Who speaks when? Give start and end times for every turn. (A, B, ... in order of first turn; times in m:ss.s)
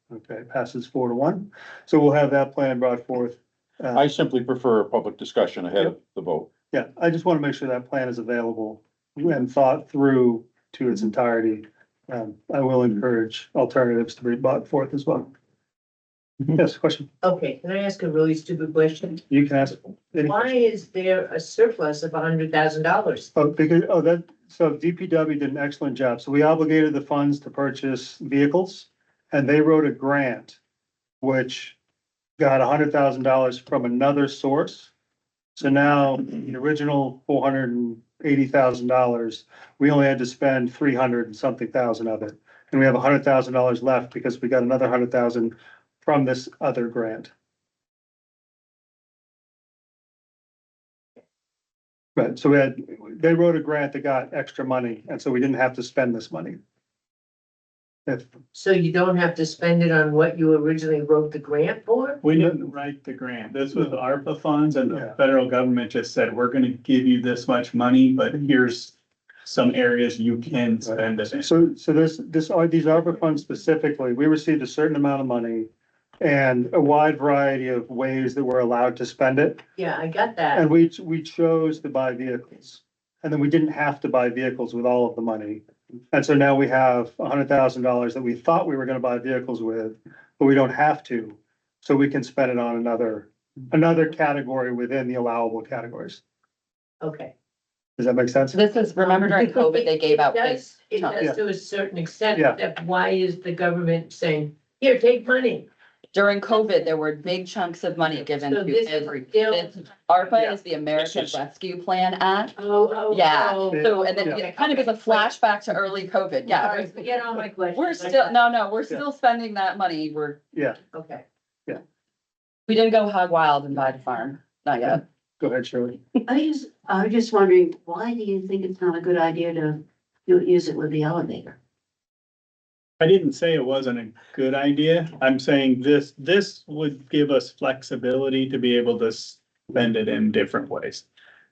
0:00.1-0:04.1 A
0:03.9-0:06.5 B
0:06.7-0:15.3 A
0:16.4-0:17.1 A
0:17.2-0:19.2 C
0:19.3-0:20.5 A
0:20.2-0:23.3 C
0:23.4-0:30.6 A
0:31.2-0:31.8 A
0:32.4-0:34.9 A
0:35.6-0:47.3 A
0:52.2-0:56.6 A
0:58.1-0:58.3 A
0:58.5-1:02.2 C
1:02.2-1:11.5 D
1:02.3-1:02.6 A
1:04.9-1:05.2 A
1:10.8-1:15.7 A
1:16.2-1:19.6 A
1:19.8-1:20.6 C
1:20.5-1:36.2 A
1:37.0-1:37.3 C
1:38.0-1:38.6 A
1:38.5-1:41.3 E
1:39.0-1:45.7 C
1:42.3-1:42.6 A
1:46.1-1:52.6 E
1:48.3-1:49.7 C
1:51.0-1:51.4 B
1:52.6-1:55.3 C
1:53.1-1:57.0 E
1:53.7-1:54.4 A
1:56.4-1:58.5 C
1:57.7-2:00.4 E
2:00.5-2:00.8 A
2:00.9-2:01.2 C
2:02.7-2:05.0 E
2:05.4-2:06.0 A
2:06.3-2:11.6 F
2:13.0-2:21.0 D